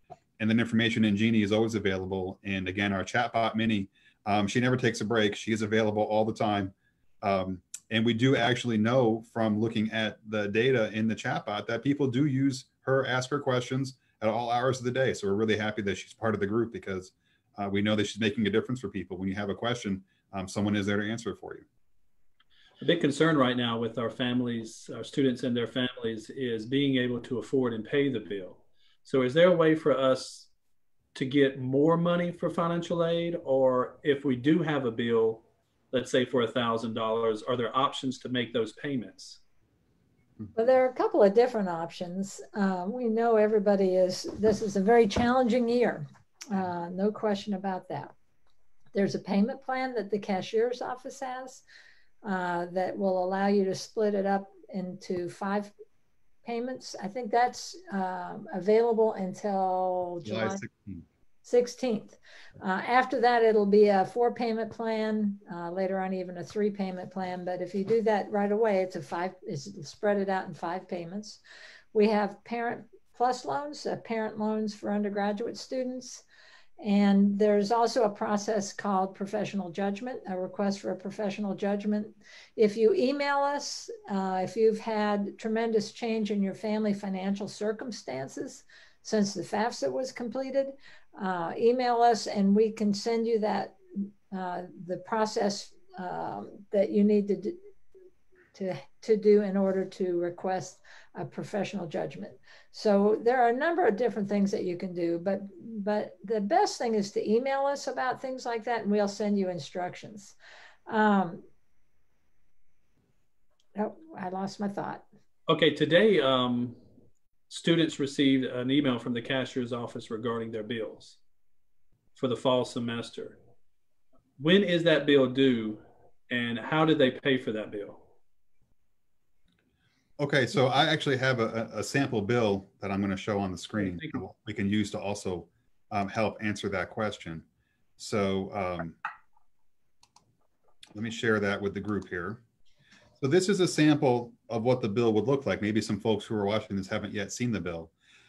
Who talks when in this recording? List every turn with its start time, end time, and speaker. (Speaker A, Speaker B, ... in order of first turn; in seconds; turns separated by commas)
Speaker A: 0.4-21.6, Speaker B: 22.8-30.5, Speaker B: 31.1-39.4, Speaker C: 40.5-48.1, Speaker C: 48.9-51.6, Speaker C: 52.2-55.7, Speaker C: 56.4-60.6, Speaker A: 60.2-61.0, Speaker C: 61.4-71.4, Speaker C: 71.9-76.2, Speaker C: 76.8-97.6, Speaker C: 98.5-110.3, Speaker C: 110.9-111.4, Speaker C: 113.8-115.0, Speaker B: 115.5-116.8, Speaker B: 117.5-121.2, Speaker B: 122.2-123.4, Speaker B: 124.4-128.0, Speaker A: 130.2-137.4, Speaker A: 138.0-139.0, Speaker A: 140.9-142.4, Speaker A: 143.2-147.9